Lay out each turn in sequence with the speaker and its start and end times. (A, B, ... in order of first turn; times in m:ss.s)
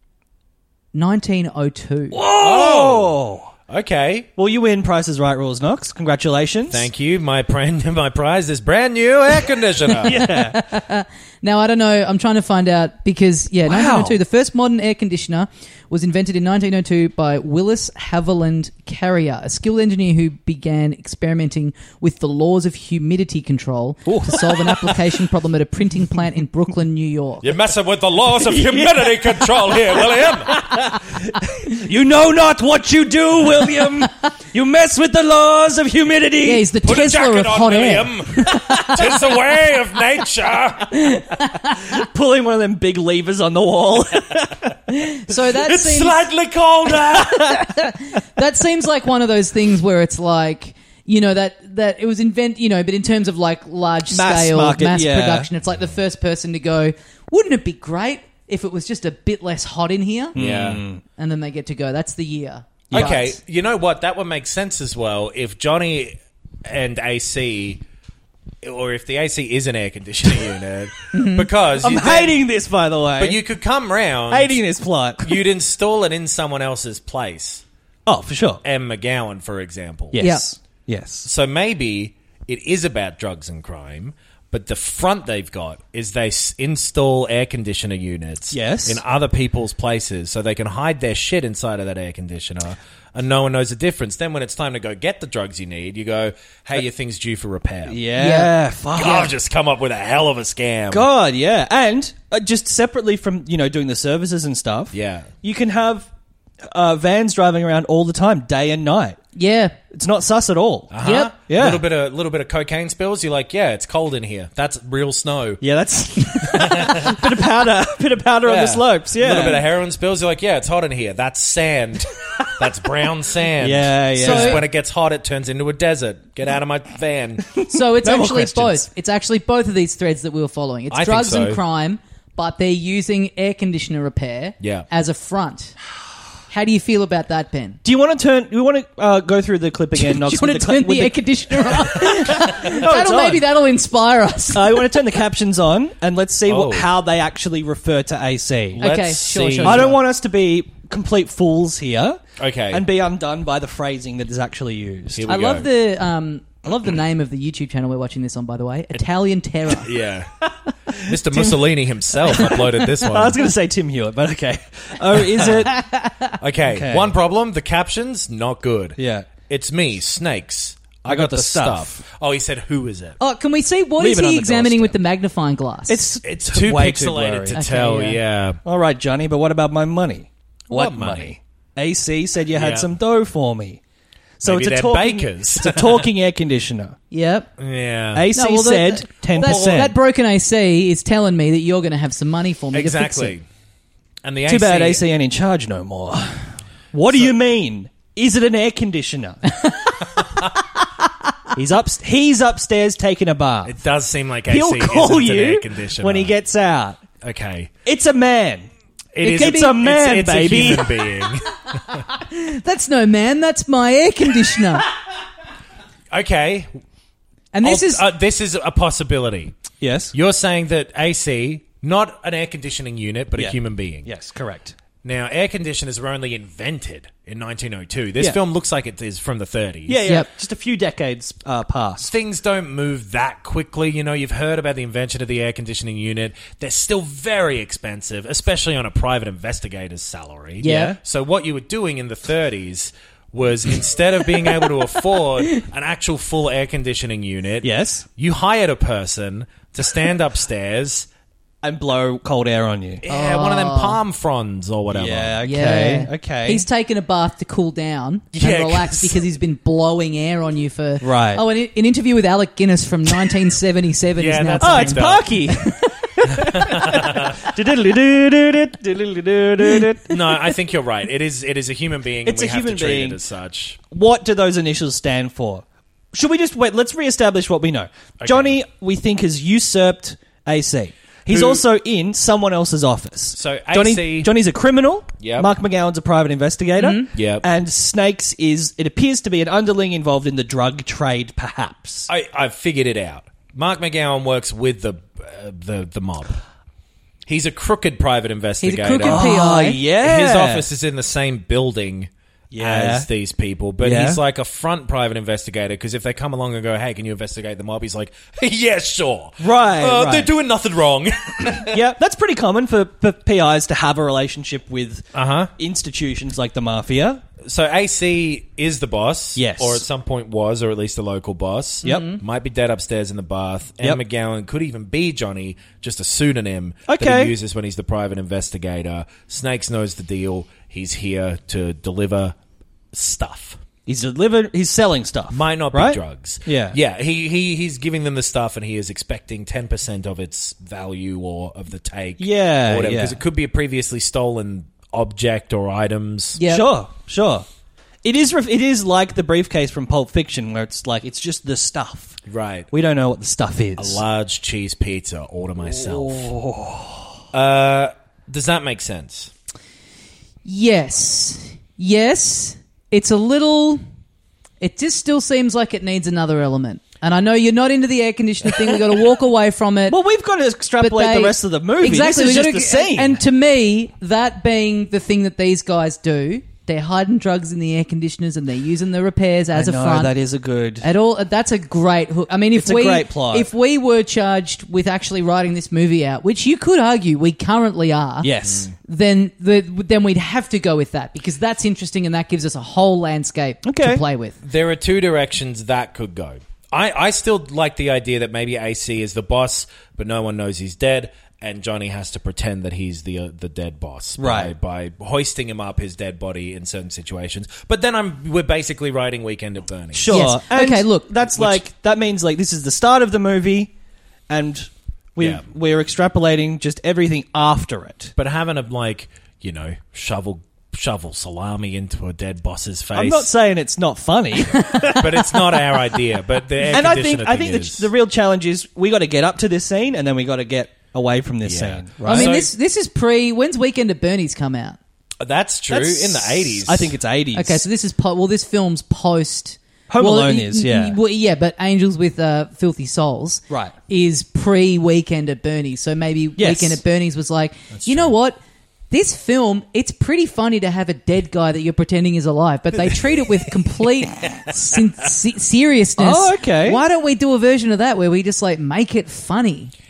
0:00.9-0:02.2 A
0:02.1-0:03.5 B
0:02.4-0:03.2 C
0:03.7-0:04.3 C
0:04.4-0:06.9 B
0:06.7-0:10.2 C
0:10.0-0:27.5 A
0:10.0-0:10.6 B
0:13.7-0:14.2 B
0:24.1-0:25.1 B
0:27.4-0:30.5 C
0:28.4-0:36.6 B
0:36.4-0:38.9 A
0:36.8-0:41.1 C
0:41.0-0:41.8 A
0:41.9-0:44.7 B
0:44.9-0:46.2 A
0:45.6-0:47.5 C
0:47.5-1:00.4 A
0:54.1-0:55.5 B
1:00.4-1:01.0 B
1:00.4-1:00.8 C
1:01.2-1:03.4 A
1:02.9-1:03.2 B
1:02.9-1:07.8 C
1:08.6-1:12.4 C
1:11.1-1:11.5 A
1:11.8-1:13.4 B
1:13.2-1:14.6 C
1:14.3-1:15.4 B
1:15.2-1:17.6 C
1:18.1-1:18.6 B
1:18.6-1:20.2 C
1:20.1-1:21.3 B
1:20.2-1:20.4 A
1:21.2-1:38.0 C
1:28.5-1:29.0 B
1:37.9-1:39.3 B
1:38.2-1:38.5 A
1:39.0-1:41.1 C
1:40.9-1:46.1 B
1:44.9-1:45.3 C
1:46.7-1:49.2 B
1:49.4-1:49.8 A
1:49.9-1:51.8 B
1:50.9-1:55.6 C
1:51.0-1:51.3 A
1:55.6-1:59.7 B
1:56.5-1:57.4 C
1:58.5-2:07.6 C
2:03.6-2:04.7 B
2:04.2-2:04.6 A
2:07.5-2:08.8 B
2:07.7-2:15.8 A
2:10.9-2:11.6 C
2:14.6-2:14.9 C
2:16.5-2:17.8 A
2:17.8-2:23.4 B
2:20.0-2:25.0 A
2:24.5-2:28.8 B
2:26.5-2:26.9 C
2:28.8-2:30.0 C
2:28.8-2:30.0 A
2:29.6-2:32.2 B
2:32.4-2:32.8 C
2:32.7-2:35.3 B
2:35.1-2:35.7 C
2:35.3-2:39.9 A
2:39.8-2:40.3 C
2:40.4-2:45.7 B
2:41.0-2:43.5 C
2:45.4-2:45.7 C
2:45.7-2:46.4 A
2:46.4-2:53.2 C
2:46.7-2:47.2 B
2:49.0-2:49.3 B
2:51.1-2:52.0 B
2:53.2-2:56.0 A
2:54.0-2:55.0 B
2:55.9-2:57.6 B
2:56.2-2:58.6 C
2:57.5-2:58.2 A
2:58.6-3:03.8 B
3:00.7-3:01.3 C
3:02.5-3:02.9 C
3:04.4-3:07.0 B
3:04.4-3:06.1 C
3:07.1-3:07.5 A
3:07.6-3:08.3 C
3:08.2-3:09.9 B
3:08.3-3:13.4 A
3:09.4-3:09.7 C
3:12.7-3:13.4 C
3:14.2-3:15.0 C
3:14.5-3:19.4 B
3:21.6-3:23.8 B
3:23.6-3:26.3 C
3:24.5-3:27.0 B
3:27.2-3:27.7 C
3:27.8-3:28.7 B
3:29.2-3:32.0 C
3:29.2-3:31.1 B
3:29.2-3:29.8 A
3:32.2-3:34.9 A
3:36.1-3:36.7 C
3:37.5-3:38.0 A
3:37.6-3:39.6 C
3:39.8-3:40.1 B
3:40.1-3:44.1 C
3:43.4-3:44.8 B
3:45.0-3:50.0 C
3:49.9-3:52.1 B
3:52.0-4:11.1 C
4:00.6-4:01.0 A
4:00.6-4:01.0 B
4:07.6-4:08.1 B
4:11.6-4:13.0 B
4:13.0-4:15.4 C
4:13.1-4:14.0 A
4:14.9-4:16.6 B
4:15.4-4:25.2 A
4:18.4-4:19.2 C
4:21.0-4:21.4 B
4:24.2-4:25.3 C
4:24.6-4:30.5 B
4:26.3-4:27.4 C
4:30.1-4:33.8 C
4:32.2-4:33.2 B
4:33.9-4:52.1 B
4:38.2-4:38.6 C
4:41.3-4:41.6 C
4:43.4-4:44.3 C
4:45.2-4:45.5 C
4:46.8-4:47.1 A
4:47.2-4:47.4 C
4:52.1-4:56.4 C
4:57.3-4:59.4 C
4:58.6-4:59.8 A
4:59.0-5:00.7 B
5:00.0-5:11.8 C
5:02.5-5:03.1 B
5:03.8-5:04.2 B
5:09.4-5:10.3 B
5:11.7-5:17.2 B
5:15.2-5:15.5 C
5:17.4-5:32.4 C
5:19.4-5:19.8 B
5:21.8-5:22.2 A
5:26.9-5:27.4 B
5:32.9-5:33.6 C
5:33.9-5:36.8 B
5:35.3-5:46.4 C
5:42.2-5:43.2 B
5:46.4-5:46.7 A
5:46.5-5:47.4 B
5:48.0-5:54.0 B
5:52.3-5:52.7 C
5:53.8-5:56.3 C
5:55.6-5:57.1 B
5:57.3-5:59.3 C
6:00.4-6:03.8 A
6:04.6-6:10.0 A
6:09.9-6:13.2 B
6:10.8-6:20.1 A
6:19.5-6:20.9 B
6:20.8-6:28.3 A
6:22.6-6:23.5 B
6:28.2-6:28.7 B
6:28.5-6:28.7 C
6:28.8-6:34.4 A
6:33.6-6:34.0 B
6:34.4-6:50.3 C
6:44.2-6:44.5 B
6:49.9-6:53.7 B
6:50.1-6:51.1 A
6:51.3-6:51.6 C
6:54.3-6:58.1 B
6:55.2-6:55.4 C
6:58.2-7:03.3 C
7:02.9-7:05.9 B
7:04.7-7:07.9 C
7:06.6-7:12.5 B
7:11.4-7:12.5 C
7:12.0-7:14.8 A
7:15.2-7:17.0 C
7:15.7-7:17.6 B
7:17.4-7:28.4 A
7:19.9-7:21.0 B
7:23.5-7:23.8 B
7:26.4-7:26.8 B
7:27.7-7:28.1 C
7:28.9-7:39.7 A
7:36.0-7:36.8 B